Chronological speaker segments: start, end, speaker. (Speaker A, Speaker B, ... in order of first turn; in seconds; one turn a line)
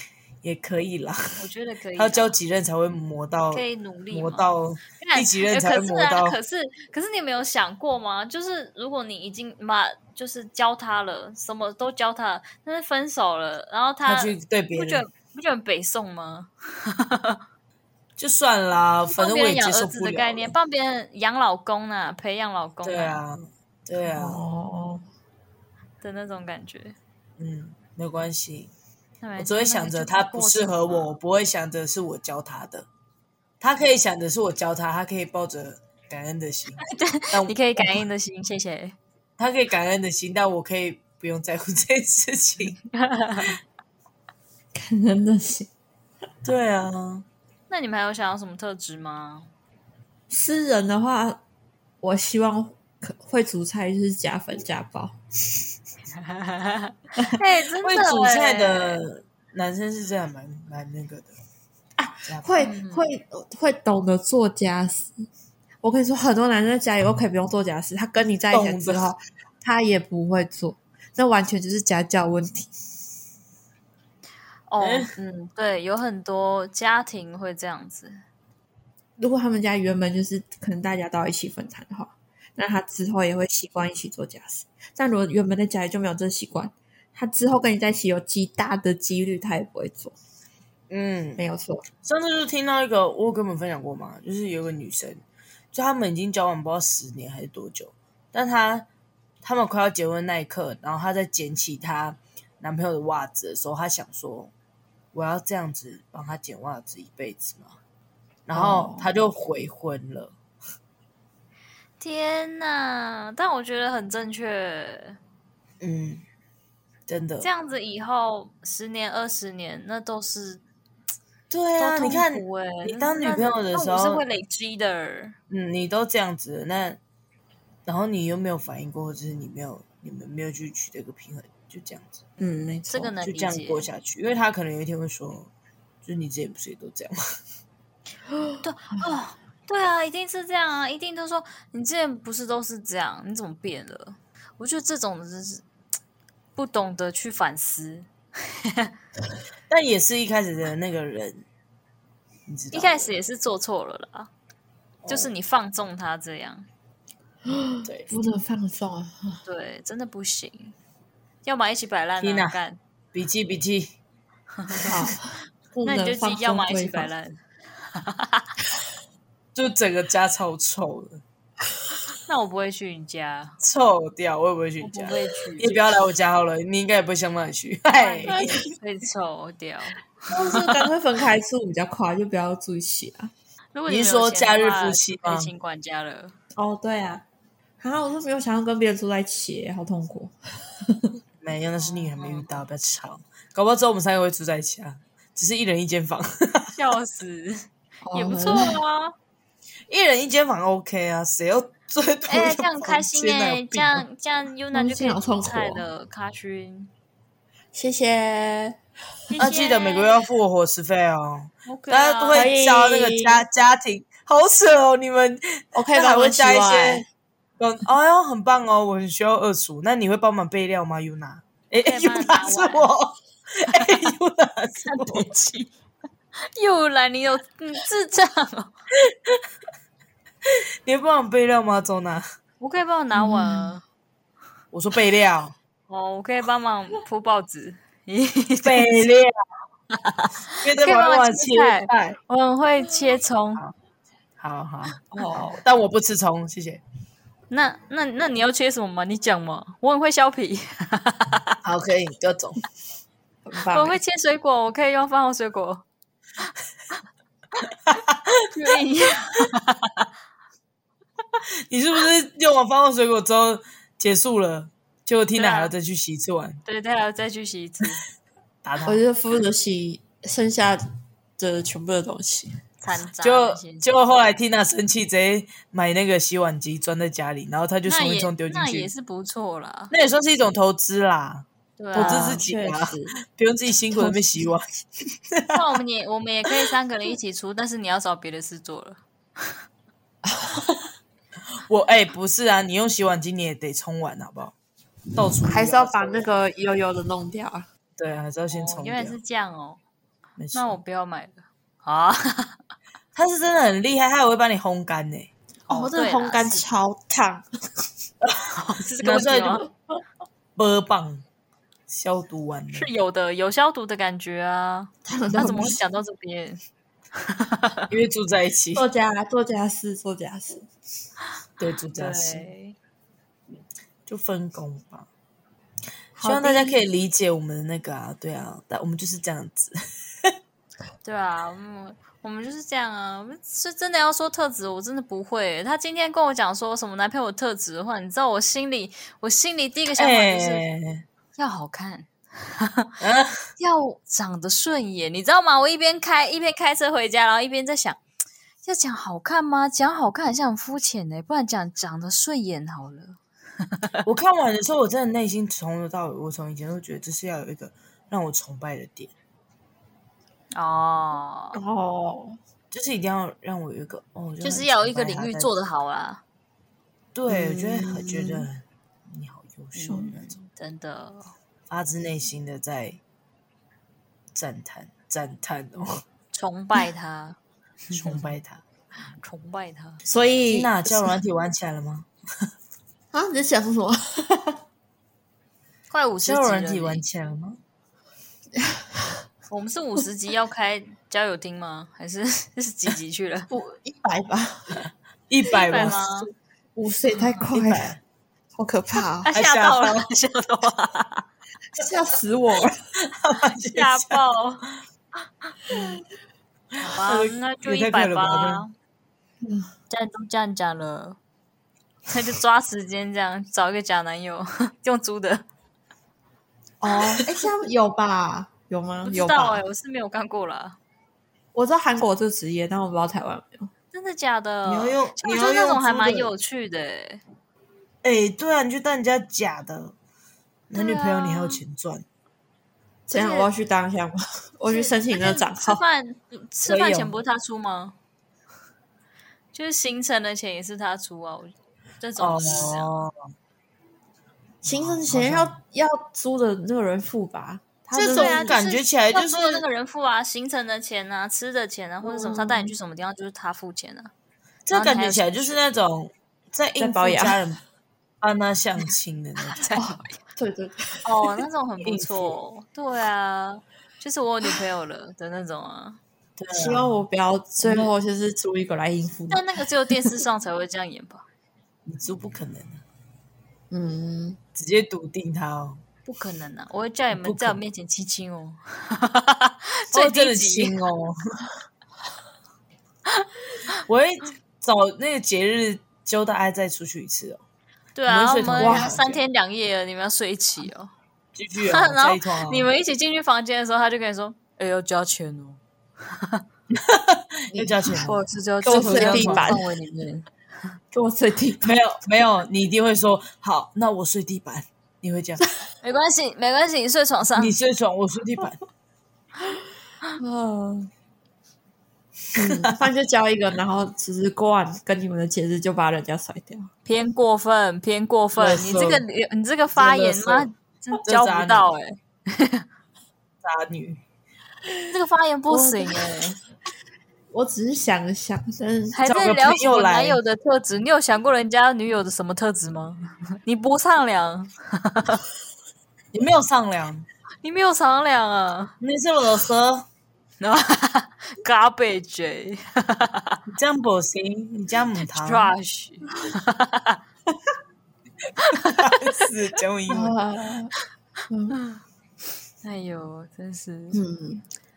Speaker A: 0.4-1.4
Speaker B: 1.4-2.4
Speaker A: 2.0-6.4
Speaker B: 3.5-17.4
Speaker A: 14.1-15.0
Speaker A: 18.2-20.5
Speaker B: 19.1-23.2
Speaker A: 22.8-24.4
Speaker C: 24.1-25.0
Speaker B: 26.0-27.0
Speaker A: 27.4-28.7
Speaker B: 29.2-31.2
Speaker A: 29.4-32.9
Speaker A: 33.6-37.6
Speaker B: 36.9-39.0
Speaker A: 39.4-42.8
Speaker B: 42.9-43.6
Speaker C: 44.7-45.7
Speaker A: 46.4-47.2
Speaker B: 47.7-49.5
Speaker C: 50.3-51.4
Speaker C: 52.0-55.6
Speaker B: 56.2-59.0
Speaker A: 57.8-61.3
Speaker C: 62.0-65.2
Speaker A: 62.3-62.5
Speaker B: 62.6-63.0
Speaker C: 65.8-72.7
Speaker A: 68.5-69.1
Speaker B: 74.7-78.2
Speaker A: 74.8-75.1
Speaker C: 79.2-90.2
Speaker A: 90.9-91.4
Speaker C: 91.4-91.8
Speaker A: 92.0-98.9
Speaker A: 99.4-104.5
Speaker A: 105.1-107.8
Speaker A: 108.5-110.3
Speaker C: 108.5-109.1
Speaker B: 112.0-115.2
Speaker A: 115.8-116.2
Speaker A: 117.1-117.5
Speaker B: 117.4-120.6
Speaker A: 121.5-124.2
Speaker B: 121.8-125.4
Speaker A: 125.5-127.0
Speaker A: 127.9-132.2
Speaker C: 132.4-133.2
Speaker B: 132.9-133.9
Speaker A: 133.2-135.5
Speaker A: 136.0-137.2
Speaker C: 138.3-138.6
Speaker B: 138.6-145.6
Speaker B: 146.6-148.9
Speaker A: 149.7-151.4
Speaker A: 152.5-153.1
Speaker B: 152.7-154.3
Speaker A: 155.0-155.3
Speaker B: 155.1-156.7
Speaker C: 157.5-159.4
Speaker A: 157.8-158.1
Speaker B: 159.5-160.8
Speaker B: 161.4-162.8
Speaker A: 162.2-162.6
Speaker A: 163.1-163.9
Speaker B: 164.6-165.2
Speaker C: 164.8-167.1
Speaker B: 165.8-167.4
Speaker B: 167.9-168.5
Speaker A: 169.6-171.2
Speaker B: 172.3-173.6
Speaker A: 173.6-178.4
Speaker B: 174.8-175.9
Speaker B: 177.9-180.9
Speaker C: 178.2-178.7
Speaker C: 180.3-183.3
Speaker B: 183.7-186.4
Speaker A: 183.9-185.5
Speaker C: 186.6-187.2
Speaker C: 187.8-191.1
Speaker A: 191.4-196.8
Speaker B: 191.8-192.6
Speaker B: 196.8-199.2
Speaker C: 198.1-198.8
Speaker A: 199.9-204.1
Speaker B: 202.3-206.9
Speaker C: 204.7-205.9
Speaker C: 207.7-208.8
Speaker B: 209.3-210.2
Speaker A: 209.4-217.0
Speaker B: 211.7-212.5
Speaker C: 212.3-213.4
Speaker C: 215.7-217.1
Speaker A: 217.6-225.3
Speaker B: 221.8-222.9
Speaker B: 224.8-225.7
Speaker B: 226.5-228.7
Speaker A: 229.1-229.4
Speaker A: 230.5-232.2
Speaker B: 232.6-233.8
Speaker C: 233.2-233.8
Speaker A: 234.7-235.6
Speaker B: 235.9-239.1
Speaker A: 238.6-239.4
Speaker B: 239.9-243.6
Speaker A: 240.6-242.2
Speaker A: 244.4-245.0
Speaker C: 245.1-245.6
Speaker A: 245.5-246.8
Speaker B: 247.5-251.6
Speaker A: 251.6-252.6
Speaker C: 253.4-254.0
Speaker B: 253.7-255.8
Speaker B: 258.5-260.1
Speaker A: 261.7-266.6
Speaker B: 265.4-265.7
Speaker B: 266.7-268.0
Speaker A: 268.6-269.0
Speaker C: 268.8-270.8
Speaker C: 271.4-272.6
Speaker B: 272.8-273.9
Speaker A: 273.2-278.9
Speaker B: 277.9-279.9
Speaker A: 279.9-284.6
Speaker B: 281.8-282.4
Speaker C: 281.9-283.2
Speaker C: 283.9-284.5
Speaker A: 285.3-285.6
Speaker B: 285.5-289.6
Speaker C: 290.2-290.9
Speaker A: 291.7-294.6
Speaker A: 295.1-296.3
Speaker C: 295.4-297.7
Speaker A: 298.0-299.2
Speaker B: 298.5-299.8
Speaker A: 300.4-300.8
Speaker B: 300.5-302.6
Speaker A: 303.1-305.3
Speaker B: 305.7-306.7
Speaker C: 305.7-307.5
Speaker B: 308.6-309.7
Speaker A: 309.0-309.6
Speaker A: 310.6-311.2
Speaker A: 311.9-312.9
Speaker B: 312.7-316.6
Speaker C: 315.1-315.8
Speaker B: 317.2-317.9
Speaker A: 317.9-318.9
Speaker C: 318.8-320.7
Speaker A: 321.6-322.5
Speaker B: 321.9-322.8
Speaker A: 324.1-325.1
Speaker C: 326.1-326.8
Speaker A: 326.2-330.3
Speaker B: 331.0-340.6
Speaker A: 339.9-341.0
Speaker B: 341.4-342.9
Speaker A: 343.0-343.5
Speaker B: 343.6-348.0
Speaker B: 348.6-353.2
Speaker A: 354.1-359.1
Speaker B: 360.5-361.6
Speaker C: 361.5-362.4
Speaker A: 362.7-365.5
Speaker B: 364.4-366.2
Speaker A: 367.1-370.4
Speaker C: 367.3-368.5
Speaker B: 369.8-371.3
Speaker A: 371.7-373.0
Speaker A: 374.4-376.0
Speaker B: 376.3-377.4
Speaker B: 377.9-378.3
Speaker A: 377.9-378.6
Speaker B: 379.2-380.0
Speaker C: 380.1-381.1
Speaker A: 380.5-382.1
Speaker C: 383.1-384.6
Speaker B: 385.9-387.1
Speaker A: 386.2-387.6
Speaker C: 388.6-389.0
Speaker B: 389.5-393.5
Speaker C: 393.5-394.8
Speaker A: 395.3-396.3
Speaker B: 395.5-396.3
Speaker C: 395.7-396.0
Speaker C: 396.8-397.9
Speaker A: 397.5-398.0
Speaker C: 398.6-399.3
Speaker B: 399.2-401.3
Speaker A: 399.3-400.1
Speaker C: 401.7-402.8
Speaker A: 403.0-404.2
Speaker B: 403.8-404.7
Speaker C: 405.7-406.0
Speaker B: 406.8-408.7
Speaker A: 407.0-408.6
Speaker C: 409.4-409.7
Speaker B: 409.9-411.2
Speaker B: 412.1-415.5
Speaker C: 416.8-419.6
Speaker B: 419.1-420.8
Speaker C: 421.6-423.7
Speaker B: 423.9-427.2
Speaker A: 424.6-426.3
Speaker A: 428.0-429.9
Speaker A: 430.7-432.1
Speaker B: 430.7-431.6
Speaker B: 433.1-433.5
Speaker C: 433.1-435.8
Speaker B: 434.7-438.0
Speaker A: 436.7-437.2
Speaker B: 439.5-442.9
Speaker A: 442.2-443.1
Speaker C: 444.6-448.6
Speaker A: 444.7-445.6
Speaker A: 447.9-449.6
Speaker B: 448.1-454.1
Speaker C: 452.0-452.7
Speaker A: 454.7-457.6
Speaker B: 454.7-455.6
Speaker C: 456.8-457.4
Speaker A: 458.2-459.8
Speaker B: 459.6-460.2
Speaker C: 459.7-461.4
Speaker B: 461.1-466.0
Speaker A: 461.8-462.4
Speaker A: 466.4-467.0
Speaker C: 466.5-470.1
Speaker B: 469.3-471.3
Speaker A: 471.9-472.8
Speaker C: 473.7-474.4
Speaker A: 474.6-475.8
Speaker B: 476.1-480.8
Speaker A: 477.1-477.6
Speaker A: 479.9-481.2
Speaker A: 483.9-487.4
Speaker B: 487.9-490.9
Speaker A: 488.1-489.2
Speaker C: 488.6-489.0
Speaker A: 491.4-492.7
Speaker B: 491.6-496.4
Speaker A: 496.7-499.6
Speaker C: 497.5-497.9
Speaker B: 498.1-500.3
Speaker C: 498.7-499.6
Speaker C: 500.9-501.8
Speaker A: 501.6-505.4
Speaker B: 505.8-507.6
Speaker A: 507.4-508.6
Speaker C: 510.2-510.9
Speaker A: 512.3-512.8
Speaker C: 512.4-516.7
Speaker B: 516.9-522.7
Speaker A: 518.4-519.0
Speaker A: 519.8-520.5
Speaker A: 521.0-521.7
Speaker A: 523.4-524.0
Speaker B: 524.9-526.4
Speaker C: 525.5-526.3
Speaker C: 527.3-529.1
Speaker B: 528.9-535.2
Speaker A: 529.0-530.2
Speaker A: 536.1-537.1
Speaker B: 537.4-538.8
Speaker A: 538.8-539.9
Speaker B: 540.4-543.4
Speaker A: 543.5-545.5
Speaker B: 545.0-547.0
Speaker A: 548.4-550.1
Speaker B: 548.4-549.0
Speaker C: 549.9-550.7
Speaker C: 551.3-551.6
Speaker B: 551.5-551.8
Speaker B: 552.6-554.0
Speaker C: 553.9-554.5